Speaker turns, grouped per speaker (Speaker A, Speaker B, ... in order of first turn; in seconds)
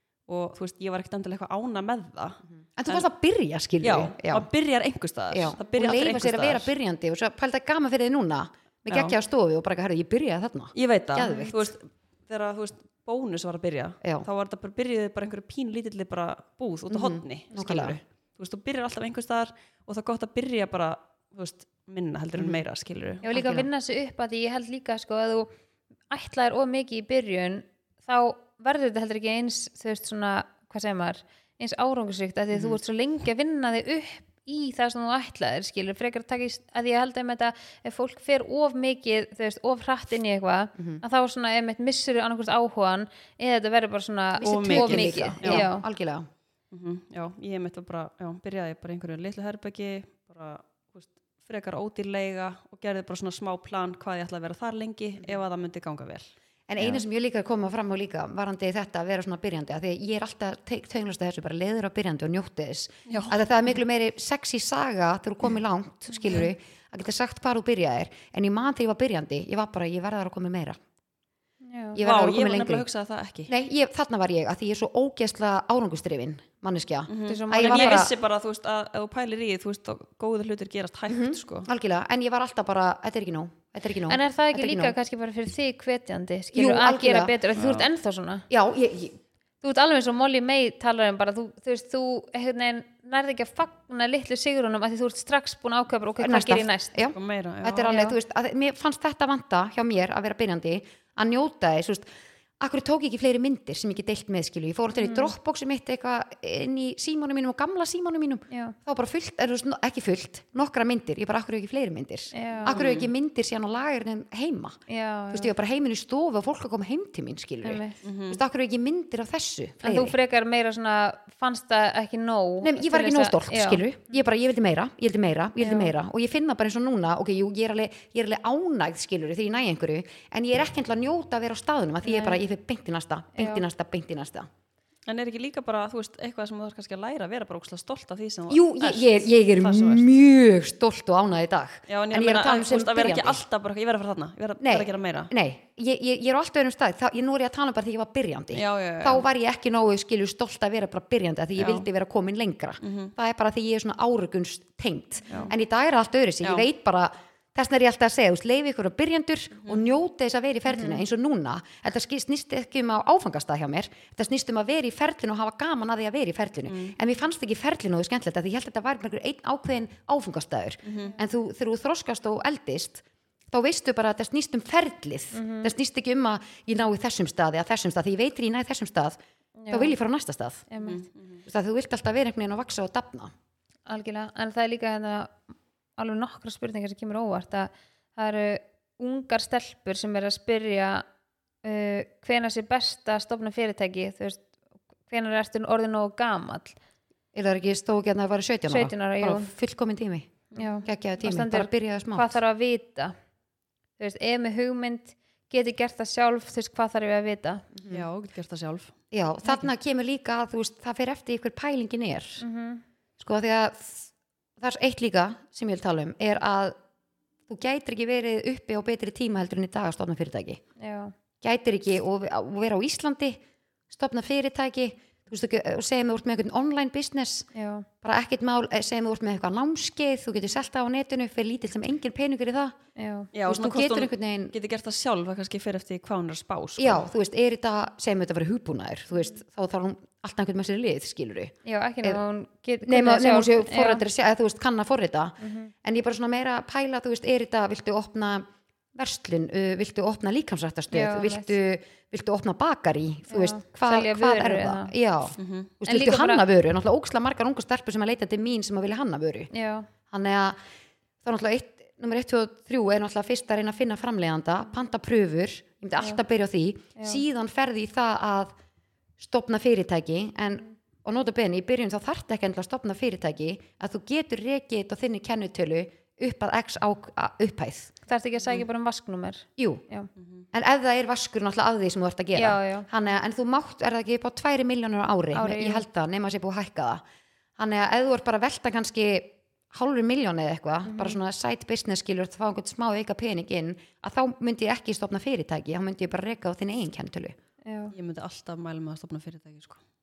Speaker A: 0.3-3.1, 3.8-6.7, 8.9-9.2, 10.8-23.2, 44.4-45.7, 46.7-57.0, 63.1-63.4, 72.0-73.5, 77.1-81.7, 87.6-87.9, 97.1-98.1, 112.7-113.1, 118.0-118.4, 135.1-140.1, 141.9-145.3, 148.5-149.2, 151.6-151.9, 152.8-153.1, 166.7-166.9, 170.9-171.1, 180.8-181.4, 207.9-208.9, 233.3-237.1, 255.4-255.7, 280.2-280.4, 297.9-299.8
Speaker B: 2.8-4.5, 5.3-11.7, 16.9-18.0, 22.4-22.6, 23.2-23.7, 40.8-41.0, 44.4-46.3, 56.7-70.8, 72.0-72.9, 73.5-78.1, 81.1-84.9, 86.5-87.3, 88.5-89.2, 96.2-102.1, 102.6-114.8, 115.3-120.2, 122.6-134.5, 138.5-143.4, 144.6-179.2, 179.7-180.7, 181.5-183.3, 197.3-202.4, 207.8-208.1, 209.1-212.4, 213.2-216.8, 217.5-220.6, 221.4-227.5, 228.0-232.8, 233.5-234.6, 236.8-242.2, 242.8-259.5, 260.1-260.6, 261.2-268.5, 269.2-277.9, 279.6-279.8, 280.5-287.0, 287.6-297.4
Speaker C: 23.2-25.5, 26.1-45.8, 71.6-72.0, 77.2-78.1, 84.1-88.5, 89.6-97.0, 105.0-105.3, 108.5-108.8, 112.3-112.8, 114.9-115.5, 117.6-118.0, 119.8-123.8, 125.6-125.9, 132.1-132.4, 133.4-133.6, 160.7-161.0, 175.3-175.7, 179.6-179.9, 180.7-181.1, 183.9-191.1, 191.6-194.5, 195.1-196.8, 198.7-199.5, 200.6-203.1, 204.0-207.7, 212.4-212.8, 220.8-221.1, 227.6-227.9, 233.0-233.3, 241.7-244.0, 245.4-245.7, 250.9-251.5, 253.3-254.9, 255.9-256.4, 259.5-259.9, 278.1-280.1, 282.4-282.9, 285.3-285.8, 290.9-291.2, 297.7-297.9